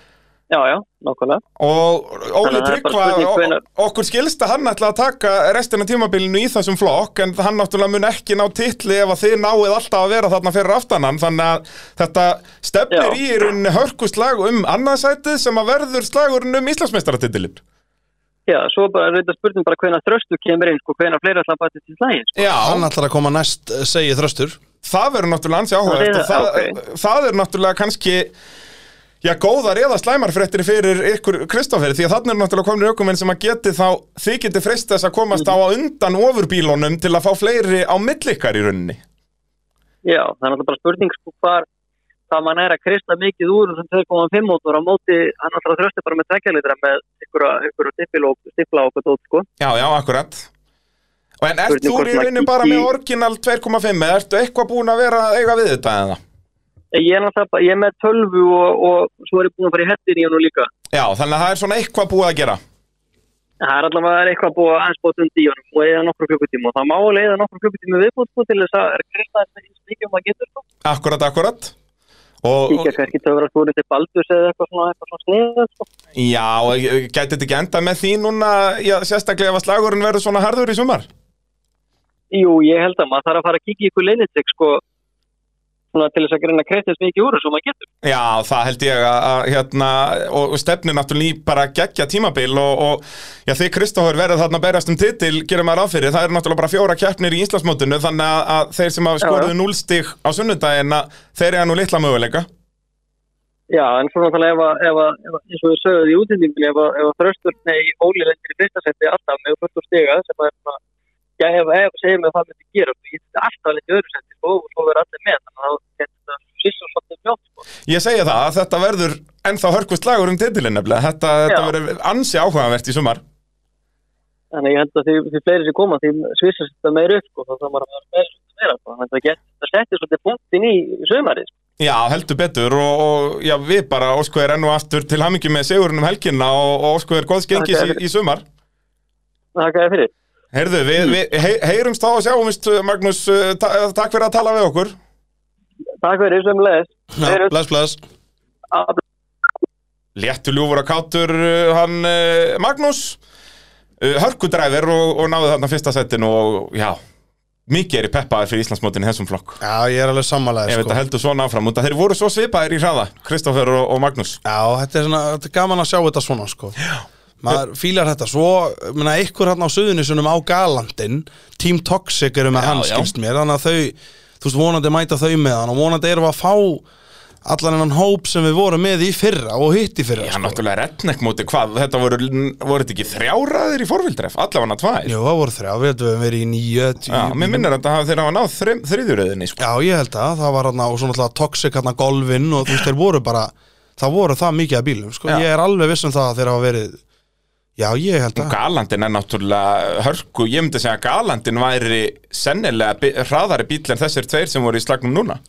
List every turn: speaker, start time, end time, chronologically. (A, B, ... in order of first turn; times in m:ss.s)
0:00.5-0:01.4 A
0:01.6-0:17.6 B
0:02.4-0:03.6 A
0:12.9-0:13.2 A
0:18.5-0:22.6 A
0:22.4-0:22.9 B
0:22.6-0:24.6 C
0:24.8-0:28.3 B
0:25.8-0:26.8 A
0:29.2-0:39.0 B
0:40.0-0:41.7 A
0:42.3-0:49.4 A
0:49.6-0:50.5 B
0:51.4-0:56.2 B
0:51.7-0:52.9 A
0:56.9-1:00.7 A
1:00.9-1:02.6 B
1:03.6-1:10.6 A
1:10.8-1:11.7 B
1:12.4-1:13.0 B
1:12.7-1:15.9 A
1:16.2-1:21.1 B
1:22.3-1:24.8 A
1:25.9-1:27.9 A
1:28.0-1:42.5 B
1:39.2-1:39.5 A
1:43.7-1:50.8 A
1:51.4-1:57.6 A
1:57.9-2:03.2 B
2:04.5-2:11.5 A
2:11.8-2:18.4 B
2:17.5-2:18.0 A
2:19.6-2:20.1 A
2:20.5-2:24.9 B
2:26.0-2:27.6 A
2:27.2-2:28.0 C
2:28.7-2:29.0 A
2:30.2-2:33.2 B
2:34.0-2:37.0 B
2:37.7-2:39.6 B
2:39.6-2:41.0 C
2:40.7-2:44.4 B
2:44.4-2:46.8 C
2:47.4-2:56.8 C
2:52.5-2:53.1 B
2:57.4-3:00.6 C
3:00.2-3:05.1 B
3:05.1-3:07.7 C
3:07.1-3:09.6 B
3:09.6-3:17.0 C
3:17.8-3:18.6 C
3:18.4-3:25.4 B